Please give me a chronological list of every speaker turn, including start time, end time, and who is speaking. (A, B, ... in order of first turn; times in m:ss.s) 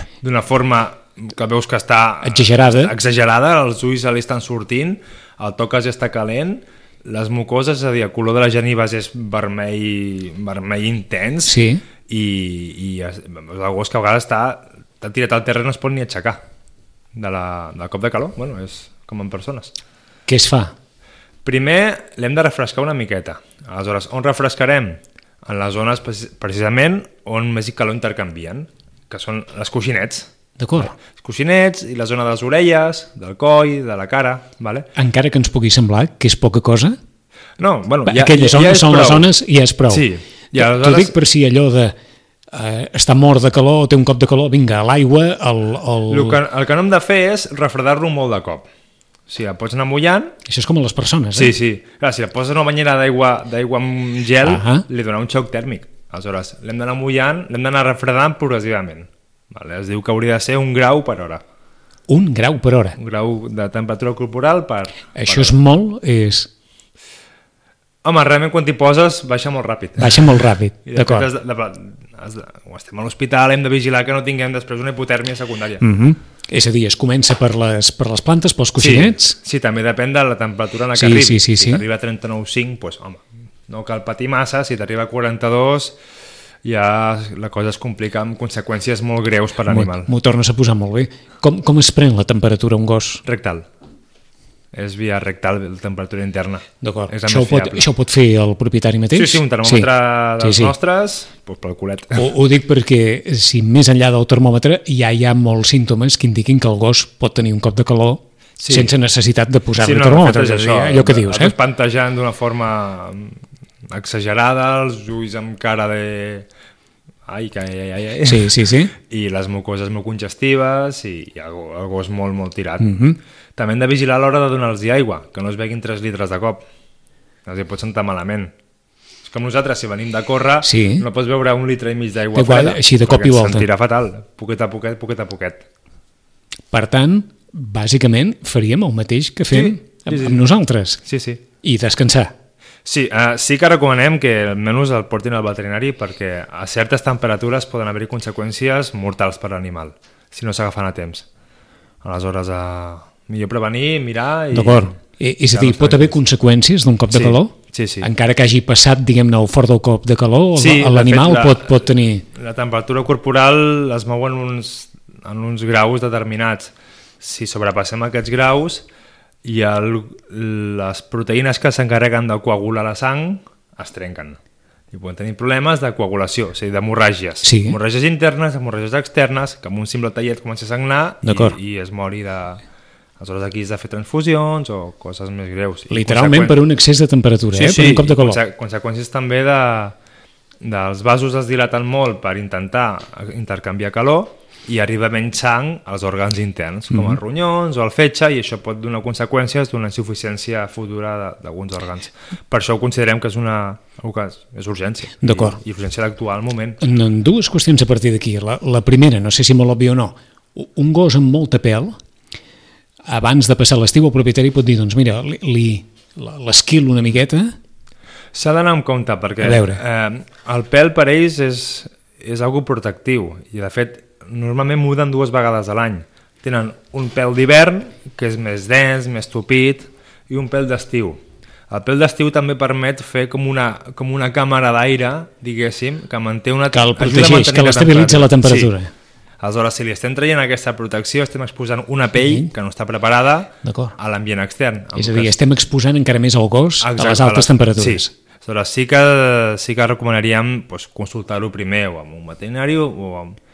0:00.2-0:11.6 A
0:02.2-0:02.9 B
0:11.5-0:11.8 B
0:12.1-0:16.4 A
0:17.2-0:19.7 A
0:20.3-0:20.7 B
0:21.4-0:34.9 A
0:30.6-0:30.9 B
0:35.0-0:37.0 B
0:37.6-0:39.3 A
0:38.0-0:42.0 B
0:39.9-0:41.2 A
0:42.5-0:46.4 B
0:46.1-0:48.6 A
0:49.3-0:50.3 A
0:50.5-0:51.6 B
0:51.3-1:01.4 A
0:54.4-0:54.8 B
1:02.1-1:03.0 B
1:03.0-1:05.6 A
1:05.2-1:06.5 B
1:08.0-1:15.8 A
1:10.0-1:11.3 B
1:15.8-1:19.4 B
1:18.8-1:26.0 A
1:20.9-1:21.8 B
1:26.6-1:30.1 A
1:29.7-1:33.2 B
1:33.2-1:33.6 A
1:34.7-1:37.9 A
1:36.8-1:40.7 B
1:39.1-1:42.3 A
1:42.2-1:51.6 B
1:48.6-1:48.9 A
1:49.8-1:53.4 A
1:53.9-1:56.5 A
1:57.3-2:02.9 A
1:58.2-1:58.9 B
2:02.8-2:03.2 B
2:03.6-2:06.6 A
2:07.5-2:08.5 A
2:09.2-2:15.6 A
2:10.6-2:11.0 B
2:12.3-2:13.7 B
2:16.7-2:21.0 B
2:19.5-2:20.5 A
2:21.0-2:21.4 A
2:21.6-2:22.3 B
2:22.8-2:31.2 A
2:32.0-2:35.0 A
2:34.5-2:42.2 B
2:35.5-2:36.2 A
2:37.1-2:38.1 A
2:40.6-2:48.8 A
2:49.4-2:54.4 A
2:54.9-3:02.6 A
2:57.4-2:57.8 B
3:01.2-3:01.6 B
3:03.2-3:06.6 A
3:05.9-3:08.4 B
3:07.5-3:10.0 A
3:10.6-3:26.8 A
3:16.9-3:17.2 B
3:25.2-3:25.6 B
3:26.8-3:32.0 B
3:33.1-3:37.5 B
3:38.3-3:51.2 A
3:39.4-3:39.8 B
3:51.7-3:58.7 A
3:56.7-3:58.9 B
3:59.4-4:05.3 A
4:02.2-4:02.5 B
4:03.6-4:04.0 B
4:05.0-4:08.1 B
4:06.8-4:13.4 A